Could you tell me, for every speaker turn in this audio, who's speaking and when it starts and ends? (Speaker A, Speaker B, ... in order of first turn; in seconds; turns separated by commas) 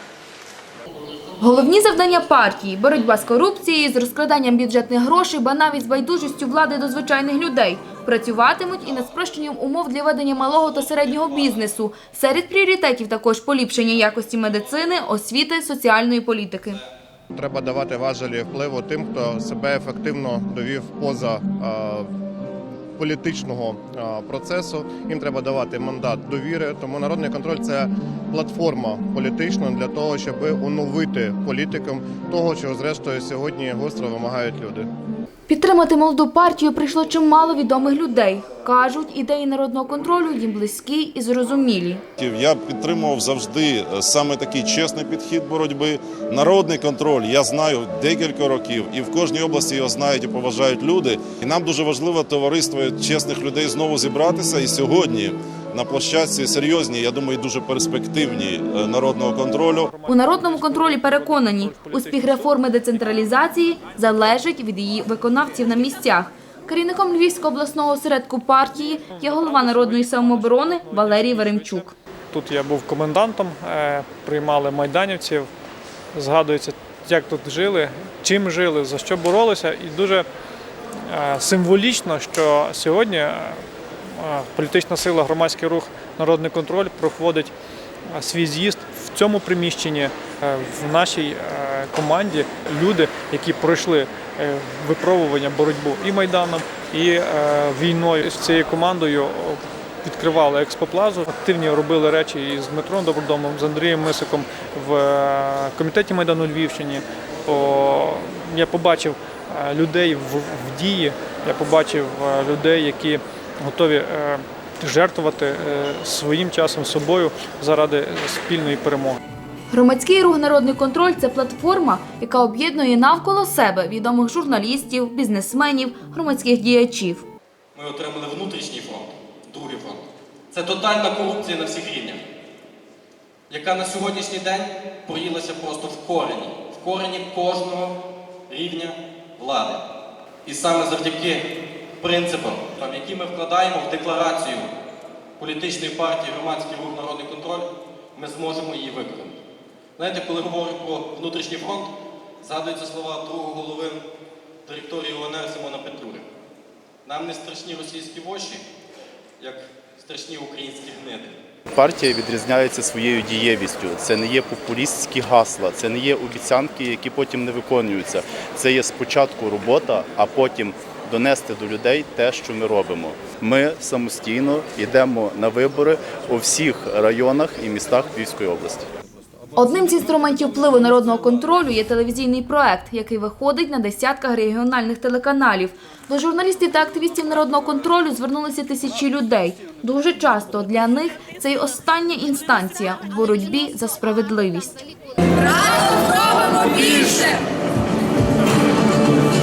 Speaker A: 1.4-16.8, Speaker B: 17.3-22.1, Speaker B: 23.0-34.9, Speaker A: 35.5-42.0, Speaker C: 42.2-59.9, Speaker D: 59.7-62.6, Speaker A: 60.0-71.9, Speaker D: 68.8-75.5, Speaker D: 76.1-80.2, Speaker D: 81.0-87.5, Speaker D: 88.1-119.2, Speaker A: 119.7-127.2, Speaker E: 127.7-132.2, Speaker E: 133.5-138.0, Speaker E: 138.5-139.8, Speaker E: 140.4-144.7, Speaker E: 145.4-149.4, Speaker E: 150.0-154.0, Speaker E: 154.7-156.2, Speaker E: 157.0-158.6, Speaker E: 159.4-161.4, Speaker F: 161.7-178.9, Speaker A: 179.6-194.8, Speaker A: 196.6-197.2